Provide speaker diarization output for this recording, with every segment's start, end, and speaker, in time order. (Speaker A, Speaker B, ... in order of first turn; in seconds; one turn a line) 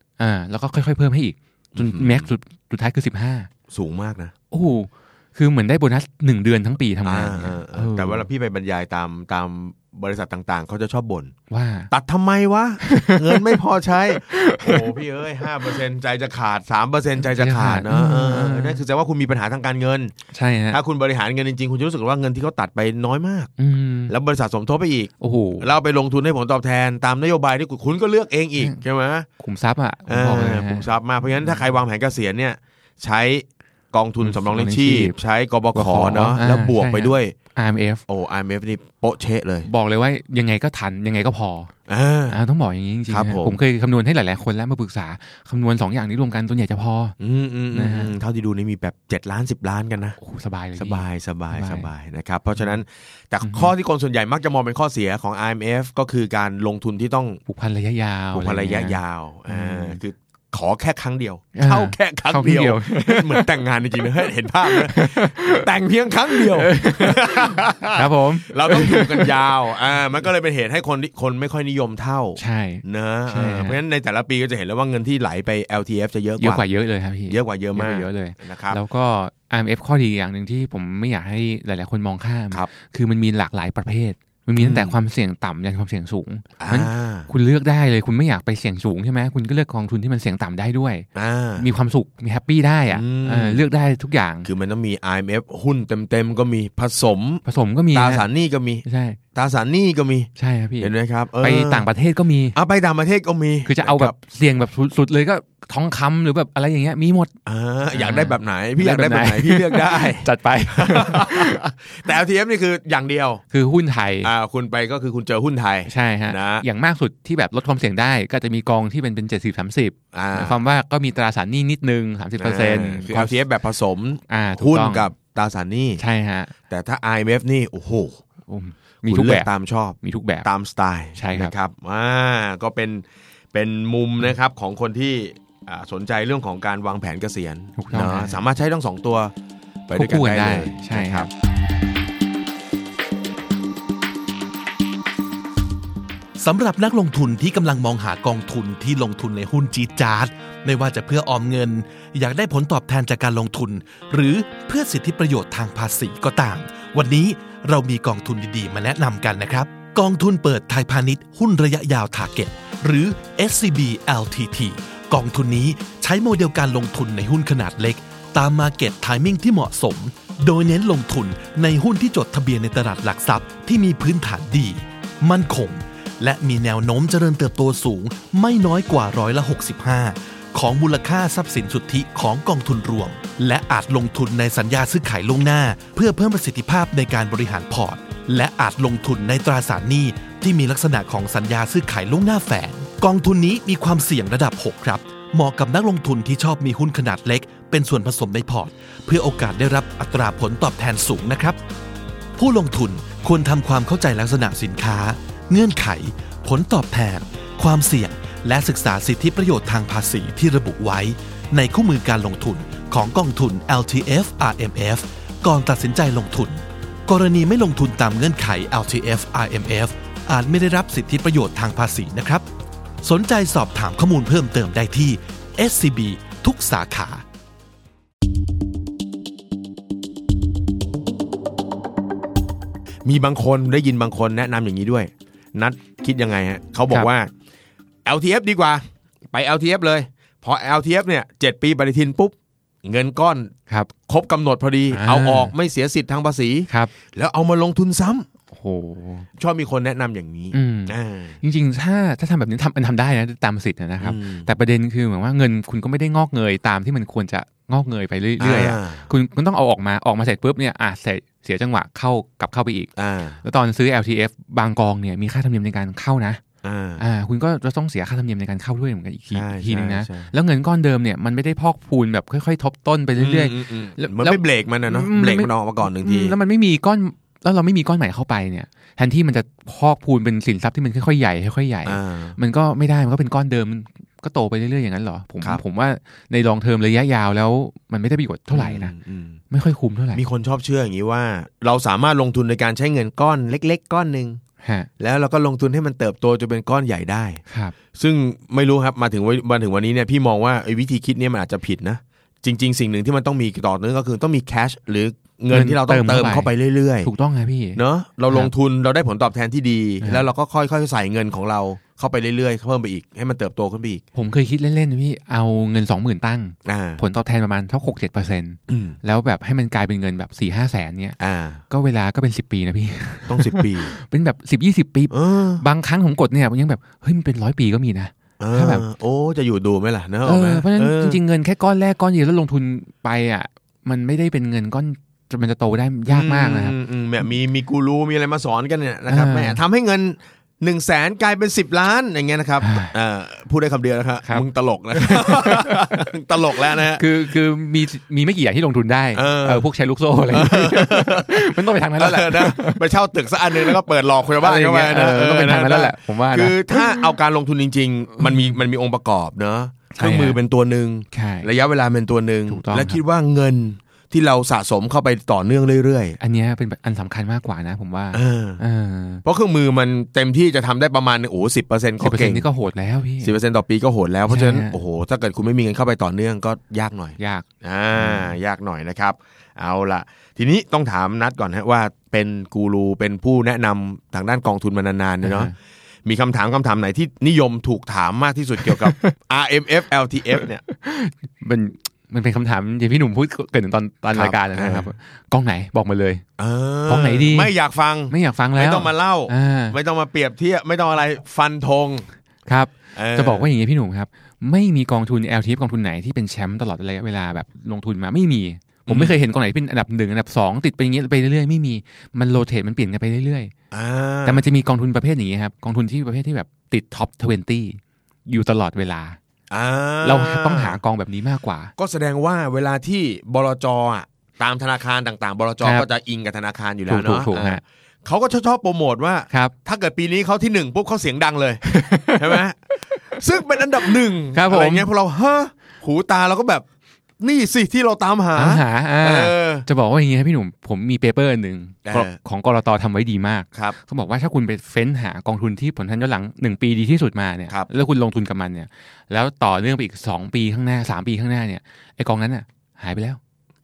Speaker A: 0.2-3.5
Speaker B: 1.8-2.3
Speaker B: 3.7-4.3
Speaker A: 4.5-8.3
Speaker B: 7.0-11.3
Speaker A: 11.5-11.9
Speaker B: 11.9-20.1
Speaker A: 12.8-13.6
Speaker A: 14.2-14.9
Speaker A: 17.2-18.8
Speaker A: 20.3-20.8
Speaker B: 20.7-23.5
Speaker A: 23.6-24.1
Speaker B: 24.1-29.3
Speaker A: 25.2-25.7
Speaker A: 29.4-30.9
Speaker B: 30.1-37.3
Speaker A: 34.2-35.2
Speaker A: 35.7-38.0
Speaker B: 38.1-39.7
Speaker A: 39.7-41.7
Speaker B: 41.9-42.4
Speaker A: 42.3-47.2
Speaker B: 43.1-43.6
Speaker B: 47.2-50.2
Speaker A: 47.7-48.1
Speaker A: 50.2-51.9
Speaker B: 50.8-57.4
Speaker A: 53.4-53.7
Speaker A: 57.5-60.0
Speaker B: 58.3-76.7
Speaker A: 61.5-63.5
Speaker A: 64.6-65.7
Speaker A: 66.3-69.3
Speaker A: 72.4-73.8
Speaker A: 76.4-91.1
Speaker B: 77.3-78.8
Speaker B: 84.6-84.9
Speaker B: 86.6-87.3
Speaker B: 91.2-91.7
Speaker A: 91.6-94.5
Speaker B: 92.9-93.6
Speaker B: 94.5-101.9
Speaker A: 97.5-98.3
Speaker A: 98.8-99.2
Speaker A: 100.4-102.6
Speaker B: 102.5-104.2
Speaker A: 103.7-107.3
Speaker B: 107.5-113.4
Speaker A: 107.9-111.6
Speaker A: 113.5-114.3
Speaker B: 114.2-116.7
Speaker A: 115.9-123.4
Speaker B: 120.1-120.6
Speaker B: 122.4-126.0
Speaker A: 124.3-125.1
Speaker A: 126.0-126.5
Speaker B: 126.7-128.2
Speaker A: 128.5-129.5
Speaker B: 129.1-139.3
Speaker A: 130.0-130.5
Speaker A: 131.2-131.5
Speaker A: 137.8-138.4
Speaker B: 139.9-141.3
Speaker A: 139.9-141.3
Speaker C: 146.4-201.6
Speaker C: 202.4-222.5
Speaker C: 223.0-227.2
Speaker B: 233.1-237.3
Speaker B: 238.1-243.5
Speaker B: 244.1-248.3
Speaker A: 244.9-245.5
Speaker A: 248.5-249.3
Speaker B: 249.4-251.4
Speaker A: 250.5-262.9
Speaker B: 254.0-254.5
Speaker B: 258.4-259.1
Speaker B: 263.0-263.4
Speaker A: 263.4-266.4
Speaker B: 266.6-267.0
Speaker A: 267.0-288.9
Speaker B: 269.3-270.3
Speaker B: 273.2-276.4
Speaker B: 281.9-282.4
Speaker B: 288.5-289.4
Speaker A: 289.5-290.2
Speaker B: 290.1-294.4
Speaker A: 294.6-294.9
Speaker B: 295.0-297.4
Speaker A: 297.5-297.8
Speaker B: 297.9-307.1
Speaker A: 305.5-306.5
Speaker A: 307.0-308.5
Speaker B: 307.8-314.0
Speaker A: 310.0-310.3
Speaker A: 314.1-321.2
Speaker B: 316.7-317.0
Speaker B: 318.7-319.0
Speaker B: 321.2-321.6
Speaker A: 321.7-328.9
Speaker B: 323.3-323.9
Speaker B: 325.1-325.6
Speaker B: 328.4-331.2
Speaker A: 330.2-336.8
Speaker B: 336.1-347.0
Speaker A: 339.1-339.6
Speaker A: 342.6-342.9
Speaker A: 344.3-346.0
Speaker A: 346.9-352.8
Speaker B: 349.2-349.7
Speaker B: 350.3-366.2
Speaker A: 354.4-357.1
Speaker A: 359.9-360.4
Speaker A: 361.1-361.5
Speaker A: 362.5-363.0
Speaker A: 366.2-369.2
Speaker B: 368.1-368.6
Speaker B: 369.3-372.5
Speaker A: 372.0-373.3
Speaker B: 373.2-385.5
Speaker A: 374.3-374.8
Speaker A: 377.2-377.4
Speaker A: 378.0-378.4
Speaker A: 385.2-385.5
Speaker B: 386.1-390.6
Speaker A: 388.7-389.1
Speaker A: 390.3-396.2
Speaker B: 394.1-394.9
Speaker B: 396.4-402.1
Speaker A: 396.9-397.5
Speaker A: 398.1-399.8
Speaker A: 402.5-413.5
Speaker B: 402.9-403.5
Speaker B: 408.9-409.2
Speaker B: 413.7-414.4
Speaker A: 414.3-419.2
Speaker B: 419.5-420.8
Speaker A: 420.0-421.7
Speaker B: 421.8-436.6
Speaker A: 426.9-427.6
Speaker A: 431.7-433.2
Speaker A: 433.8-434.9
Speaker B: 437.2-439.7
Speaker A: 438.4-453.2
Speaker B: 441.9-442.1